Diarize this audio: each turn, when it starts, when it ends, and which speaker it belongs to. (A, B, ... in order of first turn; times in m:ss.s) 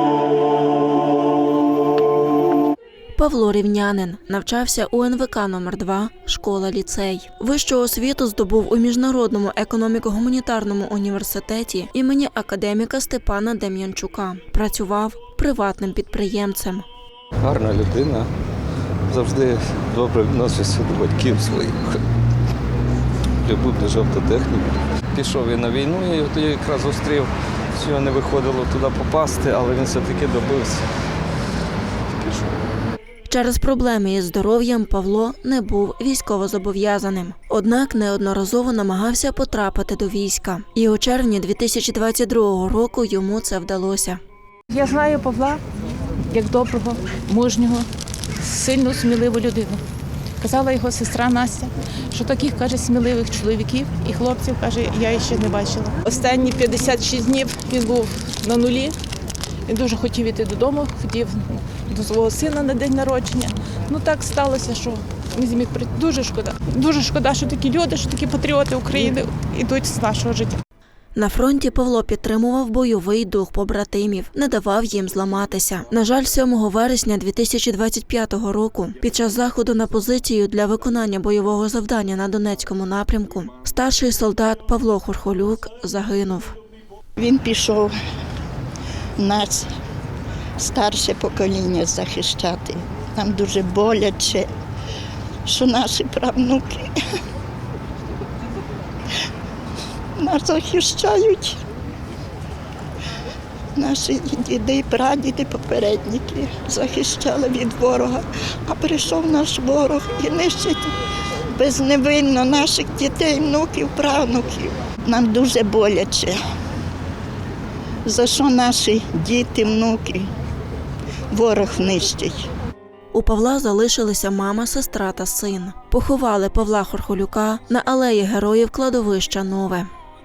0:03.2-0:16.8 A
0:17.4-0:18.3 B
0:19.1-0:22.0 B
0:23.4-0:30.9 B
0:33.3-0:44.2 A
0:44.7-0:45.6 C
0:46.3-0:49.8 C
0:50.4-0:59.0 C
0:59.6-1:10.6 C
1:11.1-1:26.6 A
1:27.2-1:27.9 D
1:29.2-1:29.7 D
1:30.6-1:34.5 D
1:35.4-1:37.0 D
1:40.2-1:41.6 D
1:43.7-1:50.9 D
1:51.5-1:56.4 D
1:58.0-2:00.3 D
2:01.3-2:02.5 D
2:03.1-2:09.9 A